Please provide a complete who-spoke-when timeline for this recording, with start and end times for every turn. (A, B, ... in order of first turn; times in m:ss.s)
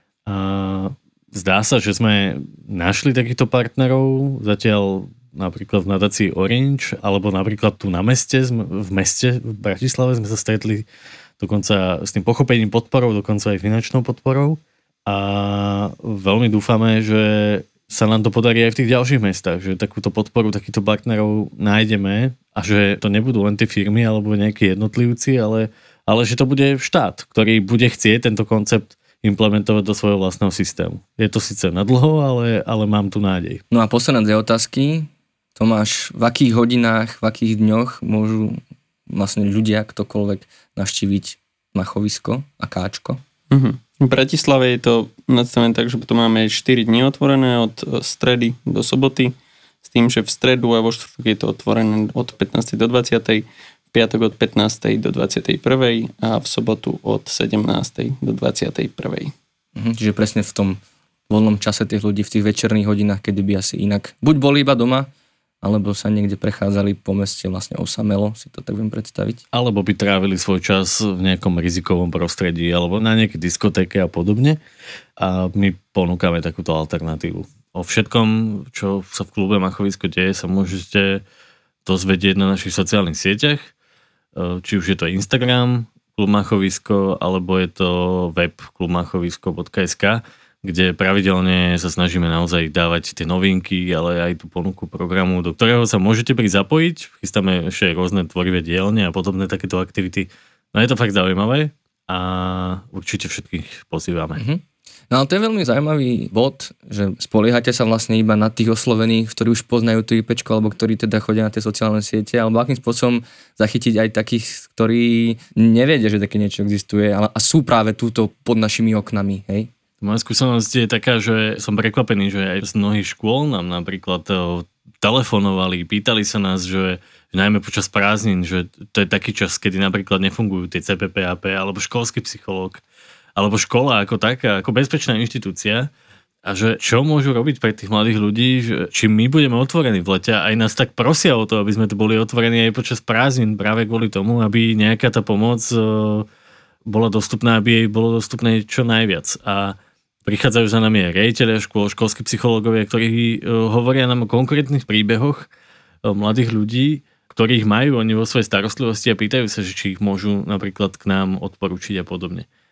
0:00.3-0:10.9 A
0:11.4-0:33.6 A
0:33.7-0:43.2 B
0:43.5-0:59.3 C
0:59.8-1:00.8 B
1:01.3-1:05.1 B
1:05.6-1:09.4 B
1:09.5-1:14.6 A
1:15.2-1:21.2 A
1:21.8-1:23.7 A
1:24.4-1:44.4 A
1:44.4-1:59.7 B
2:00.0-2:12.8 A
2:13.4-2:15.9 A
2:16.4-2:26.3 A
2:26.9-2:35.5 A
2:36.0-2:42.5 A